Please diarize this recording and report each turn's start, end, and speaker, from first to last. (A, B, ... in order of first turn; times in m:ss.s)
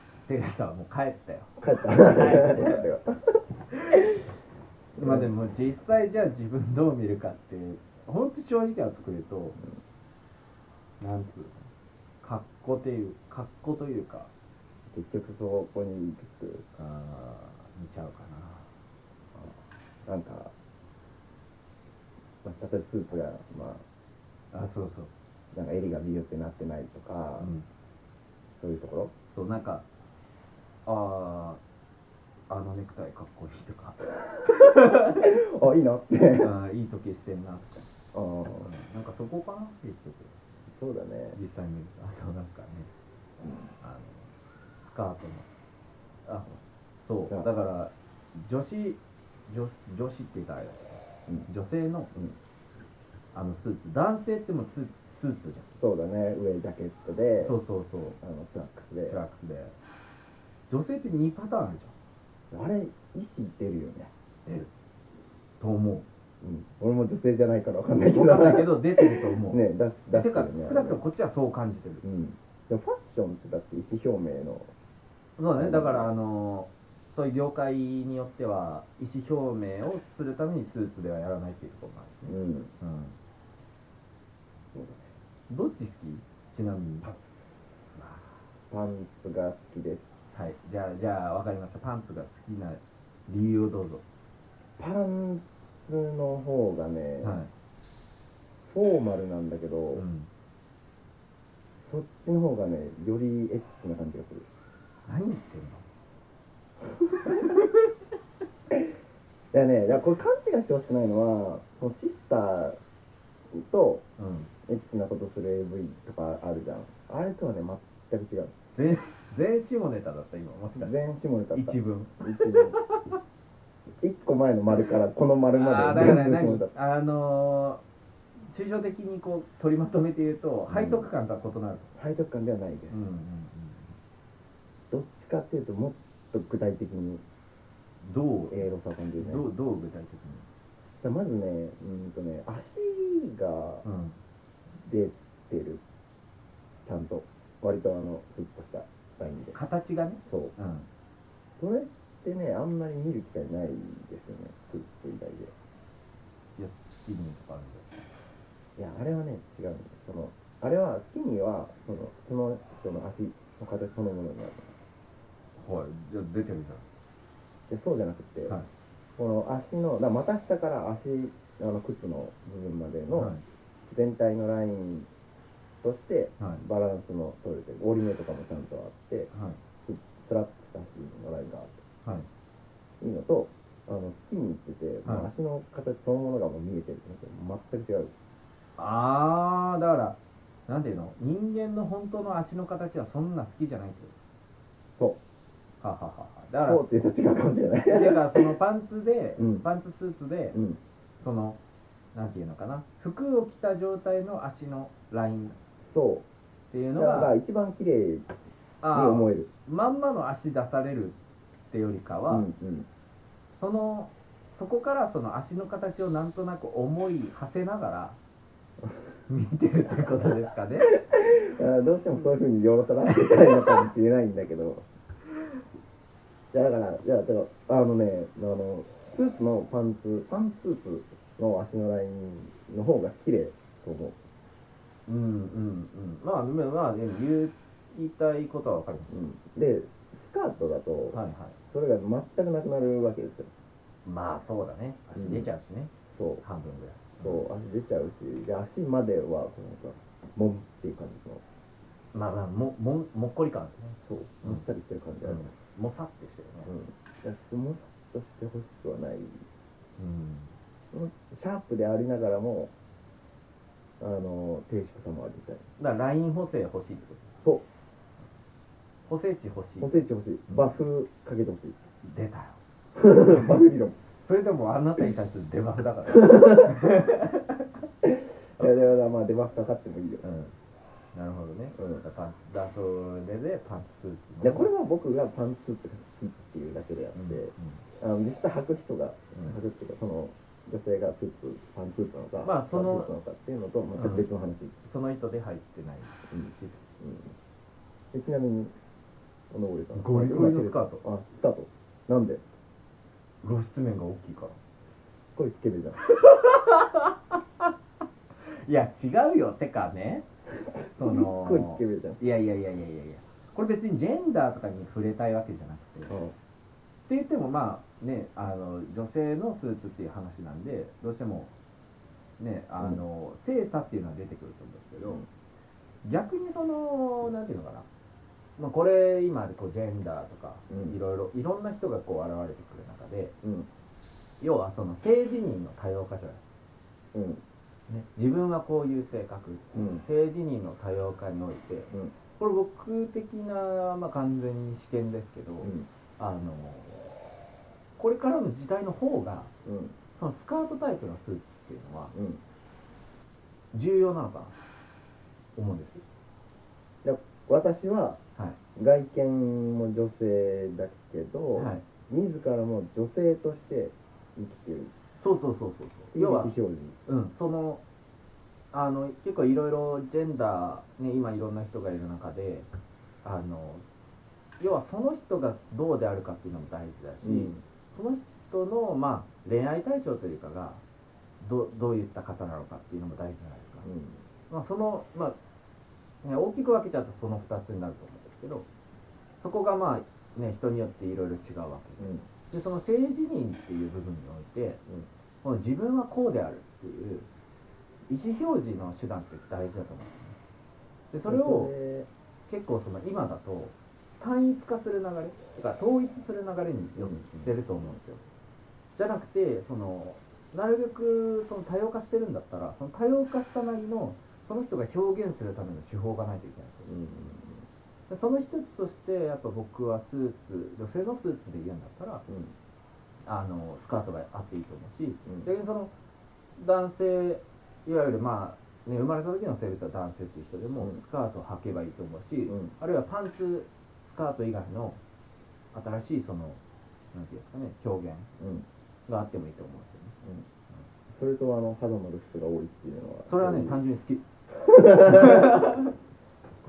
0:00.3-0:02.8 A
0:01.6-0:03.4 B
0:05.0-0:09.6 A
0:05.0-0:05.3 B
0:11.0-0:11.5 A
0:12.2-0:14.3 A
0:14.9-0:16.6 B
0:16.7-0:18.7 A
0:19.3-0:20.5 B
0:22.4-0:23.8 B
0:24.5-0:25.1 A
0:25.5-0:27.5 B
0:27.4-0:27.6 A
0:28.5-0:29.1 B
0:29.3-0:29.8 A
0:30.8-0:31.6 A
0:32.5-0:35.3 A
0:35.1-0:36.5 B
0:36.3-0:37.9 A
0:38.1-0:38.7 B
0:38.5-0:40.3 A
0:40.7-0:41.4 B
0:41.3-0:42.9 A
0:43.8-0:44.3 A
0:44.8-0:45.5 A
0:46.2-0:52.1 A
0:53.3-0:55.8 A
0:55.8-0:57.6 B
0:57.4-0:58.2 A
0:58.2-0:59.2 B
0:59.0-0:59.7 A
1:00.7-1:01.9 A
1:02.5-1:04.1 B
1:04.4-1:04.7 A
1:05.6-1:06.0 A
1:06.4-1:11.0 B
1:08.1-1:12.0 A
1:12.0-1:14.7 B
1:15.4-1:23.2 A
1:15.5-1:16.1 B
1:22.3-1:22.7 B
1:24.7-1:25.0 B
1:25.5-1:27.1 A
1:27.0-1:27.4 B
1:27.9-1:28.4 A
1:28.7-1:30.1 B
1:30.3-1:34.0 A
1:34.8-1:37.4 B
1:37.2-1:37.5 A
1:38.6-1:40.0 B
1:39.9-1:40.3 A
1:41.8-1:44.4 B
1:45.0-1:45.8 A
1:47.2-1:47.7 B
1:47.2-1:47.7 A
1:49.5-1:52.8 B
1:53.5-1:54.0 B
1:54.2-1:54.5 A
1:54.7-1:58.5 B
1:58.7-2:00.9 A
2:00.8-2:02.8 B
2:01.5-2:03.2 A
2:04.0-2:06.7 B
2:05.5-2:07.8 A
2:08.4-2:11.9 A
2:10.7-2:11.1 B
2:11.9-2:13.0 B
2:12.9-2:14.0 A
2:14.7-2:17.2 B
2:18.0-2:20.5 A
2:18.5-2:19.5 B
2:21.0-2:23.8 B
2:23.8-2:24.2 A
2:24.8-2:25.8 B
2:26.8-2:29.6 B
2:29.5-2:30.9 A
2:30.2-2:30.5 B
2:31.6-2:35.5 B
2:36.6-2:38.1 A
2:38.8-2:44.8 B
2:45.6-2:46.8 A
2:47.7-2:48.6 B
2:49.2-2:53.3 B
2:53.1-2:53.4 A
2:53.9-2:55.1 B
2:55.8-2:59.3 B
2:56.4-2:56.6 A
2:59.3-2:59.6 A
2:59.8-3:01.8 B
3:03.0-3:08.1 B
3:08.8-3:14.1 A
3:15.8-3:16.8 A
3:16.6-3:18.5 B
3:17.8-3:20.6 A
3:19.4-3:19.7 B
3:20.5-3:20.8 B
3:21.2-3:21.6 A
3:22.1-3:25.6 A
3:25.8-3:26.2 B
3:26.7-3:27.3 A
3:27.0-3:28.3 B
3:28.8-3:31.2 A
3:28.9-3:29.5 B
3:31.7-3:32.5 A
3:32.3-3:32.9 B
3:33.6-3:38.2 A
3:39.3-3:41.0 A
3:40.9-3:44.8 B
3:43.1-3:43.8 A
3:46.5-3:54.2 B
3:55.1-3:59.2 A
3:59.1-4:03.5 B
4:01.1-4:01.6 A
4:04.0-4:07.5 A
4:05.1-4:05.5 B
4:06.1-4:06.4 B
4:07.2-4:11.4 B
4:12.1-4:14.6 A
4:14.0-4:15.5 B
4:15.2-4:16.7 A
4:16.6-4:19.4 B
4:20.0-4:20.5 A
4:20.9-4:22.7 B
4:24.0-4:25.7 B
4:25.8-4:27.3 A
4:29.0-4:29.9 A
4:29.8-4:31.8 B
4:30.5-4:30.7 A
4:32.0-4:32.6 A
4:33.0-4:34.0 B
4:33.3-4:33.6 A
4:34.2-4:37.7 A
4:38.1-4:40.2 B
4:40.2-4:40.5 A
4:41.1-4:44.7 A
4:41.7-4:42.0 B
4:44.4-4:54.8 B
4:47.1-4:47.8 A
4:49.3-4:49.6 A
4:52.4-4:53.1 A
4:53.9-4:54.3 A
4:54.8-4:56.8 A
4:56.3-4:57.3 B
4:58.1-4:58.7 B
4:59.5-5:02.4 B
4:59.9-5:01.0 A
5:03.4-5:04.6 A
5:05.3-5:06.0 B
5:06.0-5:07.6 A
5:08.4-5:10.2 A
5:10.5-5:12.2 B
5:10.9-5:16.2 A
5:16.1-5:16.3 B
5:17.0-5:21.5 A
5:22.4-5:25.2 A
5:26.0-5:27.9 A
5:28.6-5:33.3 A
5:30.7-5:31.0 B
5:33.4-5:33.7 B
5:34.4-5:36.4 A
5:37.1-5:37.4 B
5:37.9-5:47.3 A
5:39.7-5:40.0 B
5:45.6-5:45.9 B
5:48.0-5:49.5 A
5:49.6-5:50.0 B
5:50.1-5:52.1 A
5:52.1-5:52.4 B
5:53.7-5:54.6 A
5:55.6-5:56.0 A
5:57.0-5:58.2 B
5:58.8-6:04.9 B
6:01.5-6:01.8 A
6:05.2-6:06.5 A
6:06.1-6:07.0 B
6:07.0-6:07.8 A
6:08.7-6:12.7 A
6:13.2-6:13.8 A
6:14.6-6:20.8 A
6:17.2-6:17.6 B
6:21.4-6:23.9 A
6:23.8-6:24.2 B
6:24.5-6:25.4 A
6:26.2-6:28.6 A
6:29.4-6:34.8 A
6:32.0-6:32.3 B
6:35.4-6:37.3 A
6:38.1-6:40.4 A
6:41.1-6:41.7 A
6:41.2-6:42.1 B
6:42.5-6:48.2 A
6:47.0-6:47.9 B
6:48.9-6:56.9 A
6:56.9-6:57.7 B
6:58.1-7:02.2 A
7:02.3-7:02.5 B
7:03.2-7:05.9 A
7:05.2-7:05.5 B
7:06.6-7:15.0 A
7:12.5-7:12.7 B
7:15.7-7:16.6 A
7:17.1-7:18.3 A
7:18.4-7:18.6 B
7:19.1-7:20.1 A
7:21.1-7:23.8 B
7:23.3-7:24.2 A
7:24.6-7:25.9 B
7:25.0-7:25.9 A